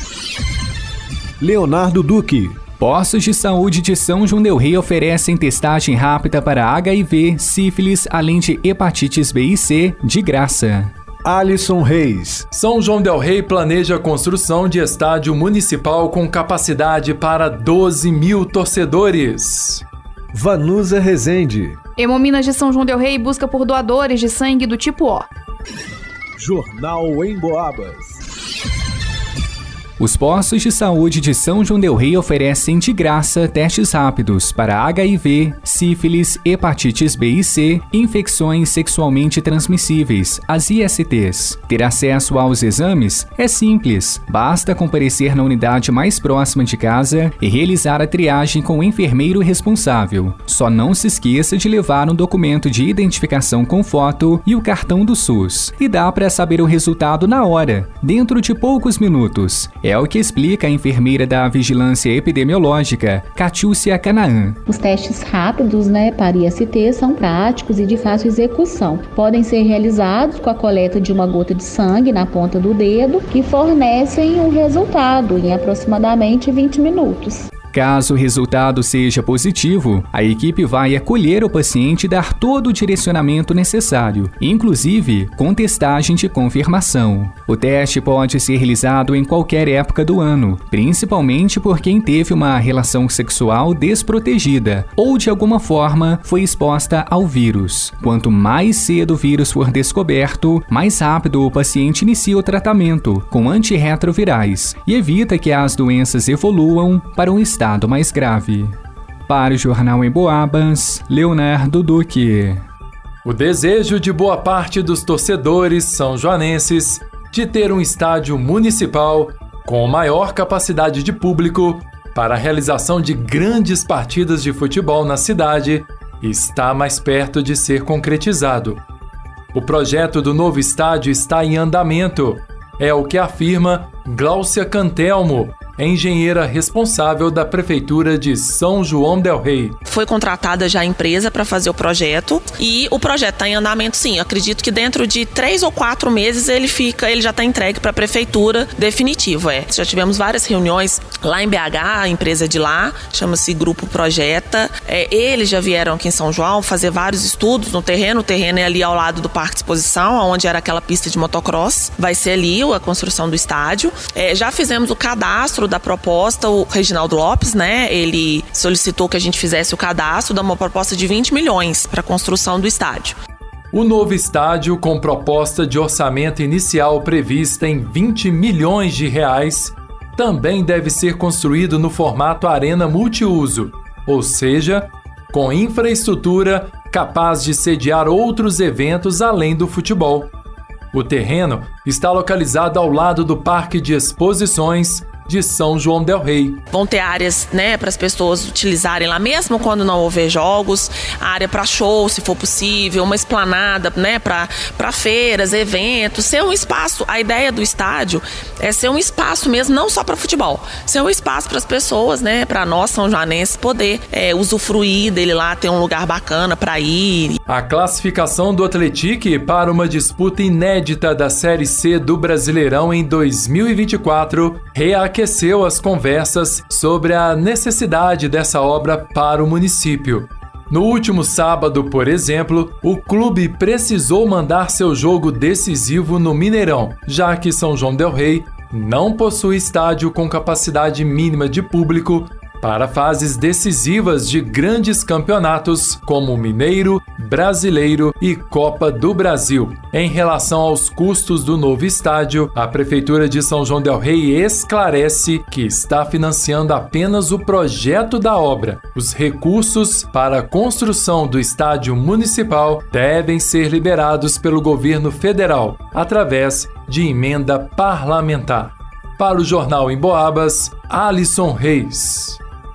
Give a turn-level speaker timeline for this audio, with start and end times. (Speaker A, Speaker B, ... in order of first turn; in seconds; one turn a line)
Speaker A: 1.4-2.6
Speaker B: 2.8-10.9
Speaker A: 11.2-12.4
Speaker C: 12.5-19.8
Speaker A: 20.3-21.8
Speaker D: 22.0-25.3
Speaker A: 26.4-28.2
Speaker B: 30.0-64.6
Speaker E: 64.7-77.5
Speaker B: 77.7-108.7
Speaker B: 109.3-112.6
Speaker C: 113.2-128.8
Speaker C: 129.5-139.8
Speaker F: 139.9-173.2
Speaker C: 173.7-190.3
Speaker C: 190.9-196.6
Speaker F: 196.7-217.4
Speaker C: 217.5-272.4